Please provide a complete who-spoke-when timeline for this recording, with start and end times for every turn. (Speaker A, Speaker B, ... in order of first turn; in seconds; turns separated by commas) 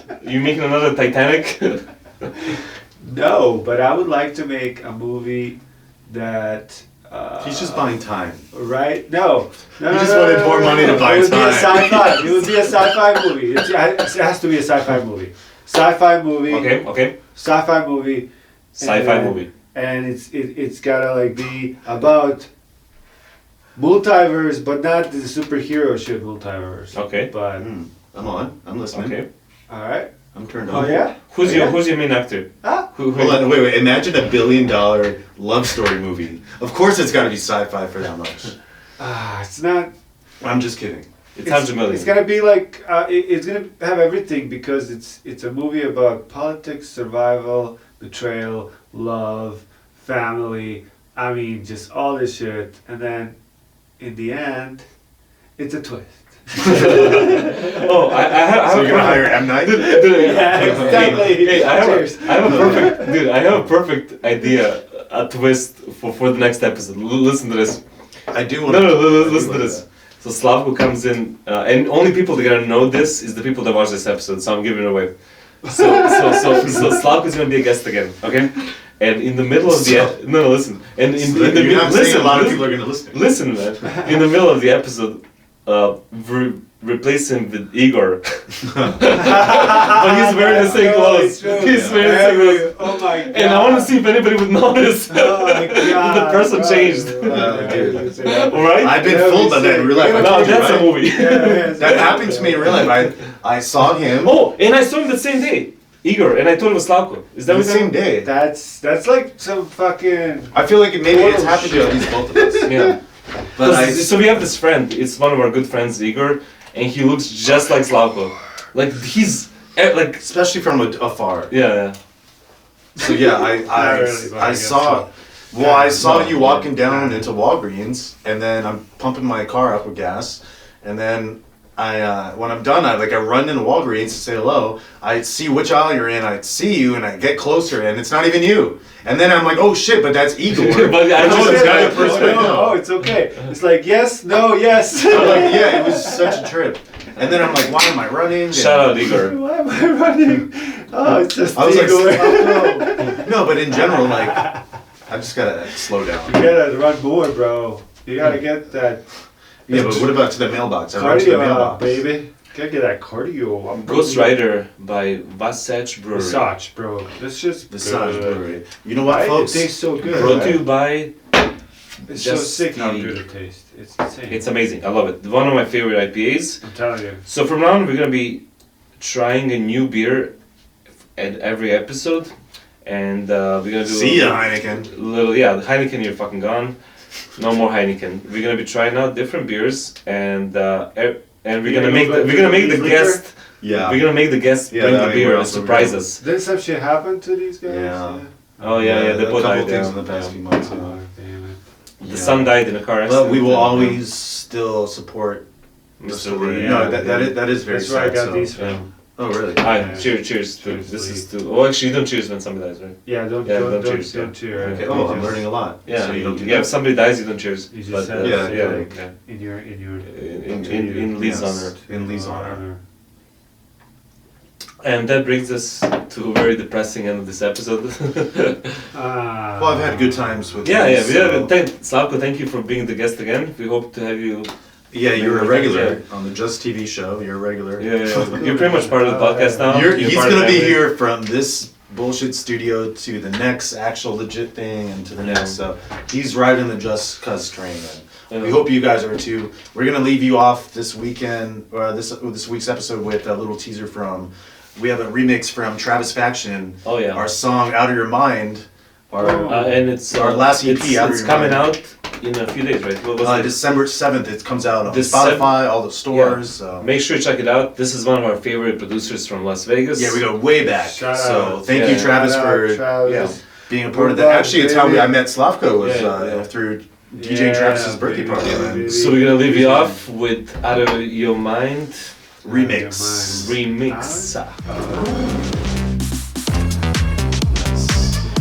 Speaker A: 0.2-1.9, Speaker B: 3.0-8.0, Speaker C: 7.4-8.4, Speaker B: 8.5-16.8, Speaker C: 9.8-12.3, Speaker A: 16.5-17.1, Speaker B: 17.3-18.3, Speaker A: 18.8-19.5, Speaker B: 18.8-22.5, Speaker B: 23.8-27.7, Speaker A: 26.9-27.3, Speaker C: 27.6-29.2, Speaker A: 28.9-29.3, Speaker B: 29.7-30.1, Speaker C: 30.3-31.7, Speaker B: 30.7-31.9, Speaker A: 30.7-33.5, Speaker B: 32.6-32.9, Speaker C: 33.1-38.5, Speaker B: 39.0-39.9, Speaker C: 40.4-41.1, Speaker A: 41.4-42.2, Speaker B: 41.4-53.4, Speaker B: 54.0-54.9, Speaker B: 55.6-63.2, Speaker A: 56.6-67.8, Speaker C: 58.6-60.0, Speaker C: 60.6-61.4, Speaker C: 62.4-62.9, Speaker C: 68.3-69.8, Speaker A: 68.6-75.1, Speaker A: 75.6-99.2, Speaker B: 75.8-76.9, Speaker C: 79.7-80.1, Speaker C: 81.2-83.2, Speaker B: 89.1-94.0, Speaker C: 91.6-92.2, Speaker B: 95.1-102.9, Speaker C: 97.3-101.0, Speaker A: 100.0-103.1, Speaker C: 101.8-104.4, Speaker A: 104.1-107.9, Speaker C: 107.5-108.3, Speaker B: 108.2-113.0, Speaker C: 110.5-112.9, Speaker A: 112.7-113.0, Speaker C: 113.5-114.1, Speaker A: 113.6-120.2, Speaker C: 120.2-121.5, Speaker A: 121.5-122.0, Speaker C: 123.0-142.8, Speaker B: 123.1-127.2, Speaker A: 126.0-126.8, Speaker A: 140.5-142.7, Speaker B: 141.1-146.5, Speaker C: 145.1-149.1, Speaker A: 148.4-149.3, Speaker B: 149.1-154.6, Speaker C: 151.5-154.5, Speaker C: 155.1-156.4, Speaker B: 156.2-159.0, Speaker C: 159.7-162.0, Speaker B: 159.7-160.1, Speaker B: 160.9-164.4, Speaker A: 163.7-166.5, Speaker B: 166.1-168.5, Speaker C: 167.7-170.6, Speaker B: 169.0-170.6, Speaker A: 170.1-171.1, Speaker B: 172.1-174.4, Speaker A: 172.1-173.1, Speaker A: 174.3-176.6, Speaker B: 176.6-177.2, Speaker A: 177.3-178.4, Speaker A: 179.0-180.3, Speaker A: 181.2-182.3, Speaker A: 182.8-186.8, Speaker C: 183.8-184.9, Speaker A: 187.4-196.2, Speaker B: 191.6-193.2, Speaker C: 193.6-194.1, Speaker C: 194.7-196.0, Speaker B: 196.2-198.8, Speaker C: 197.7-198.2, Speaker A: 198.6-200.3, Speaker C: 198.8-201.0, Speaker B: 200.6-201.6, Speaker C: 202.0-205.4, Speaker A: 202.1-204.0, Speaker A: 206.0-207.3, Speaker C: 206.1-208.5, Speaker B: 206.5-208.8, Speaker A: 208.6-208.8, Speaker C: 209.2-210.0, Speaker A: 209.6-219.1, Speaker B: 209.6-211.2, Speaker B: 213.1-215.5, Speaker C: 214.6-216.7, Speaker B: 217.7-222.8, Speaker C: 218.2-218.9, Speaker A: 220.1-221.7, Speaker C: 220.6-222.6, Speaker A: 224.8-228.8, Speaker B: 228.9-230.5, Speaker C: 229.6-231.5, Speaker A: 230.6-234.5, Speaker C: 234.9-238.5, Speaker A: 235.1-236.0, Speaker A: 237.8-240.9, Speaker B: 238.2-239.8, Speaker C: 239.7-261.7, Speaker A: 245.2-245.6, Speaker A: 248.3-248.7, Speaker A: 256.9-257.2, Speaker B: 259.2-259.8, Speaker A: 259.5-263.6, Speaker C: 263.2-266.9, Speaker A: 264.9-270.2, Speaker C: 269.9-272.9, Speaker B: 270.7-275.1, Speaker A: 271.7-272.1, Speaker A: 273.0-273.3, Speaker C: 273.7-279.1, Speaker A: 275.8-276.5, Speaker B: 277.1-280.0, Speaker A: 278.7-282.1, Speaker C: 282.4-283.6, Speaker B: 282.4-285.4, Speaker A: 283.2-284.6, Speaker C: 287.5-288.2